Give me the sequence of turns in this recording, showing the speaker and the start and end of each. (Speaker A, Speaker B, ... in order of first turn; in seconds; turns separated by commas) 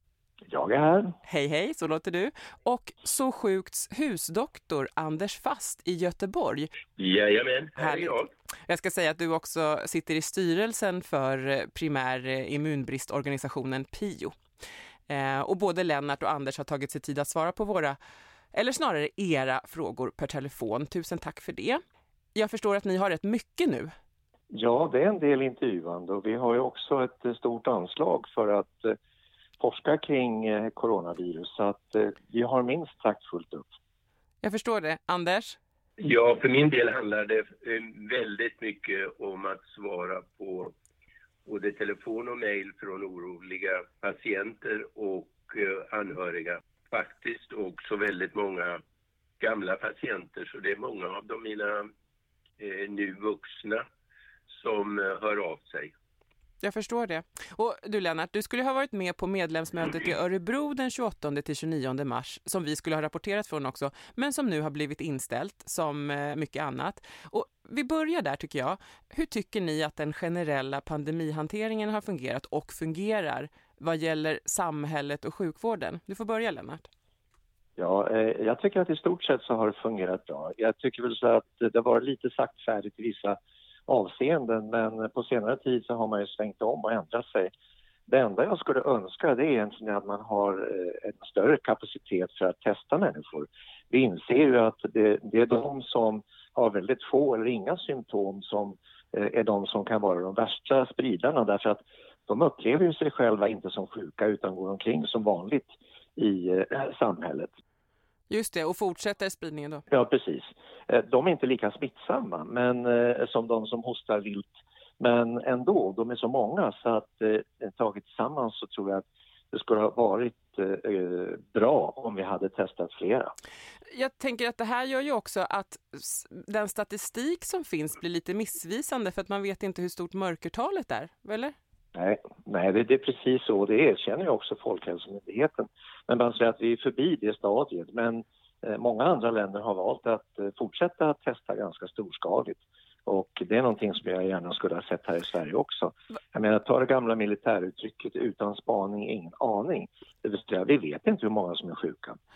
Speaker A: 0.5-1.1, Speaker B: 1.2-6.7, Speaker C: 7.0-8.3, Speaker B: 7.8-14.4, Speaker B: 15.1-18.0, Speaker B: 18.5-21.8, Speaker B: 22.4-23.9, Speaker A: 24.5-29.0, Speaker A: 29.6-33.7, Speaker B: 34.4-35.6, Speaker C: 36.0-40.8, Speaker C: 41.5-48.8, Speaker C: 49.4-51.9, Speaker C: 52.6-53.9, Speaker C: 54.5-55.9, Speaker B: 56.6-76.9, Speaker A: 77.8-87.5, Speaker A: 88.1-107.5, Speaker B: 108.3-109.8, Speaker A: 109.9-123.3, Speaker B: 123.9-131.6, Speaker A: 131.9-152.2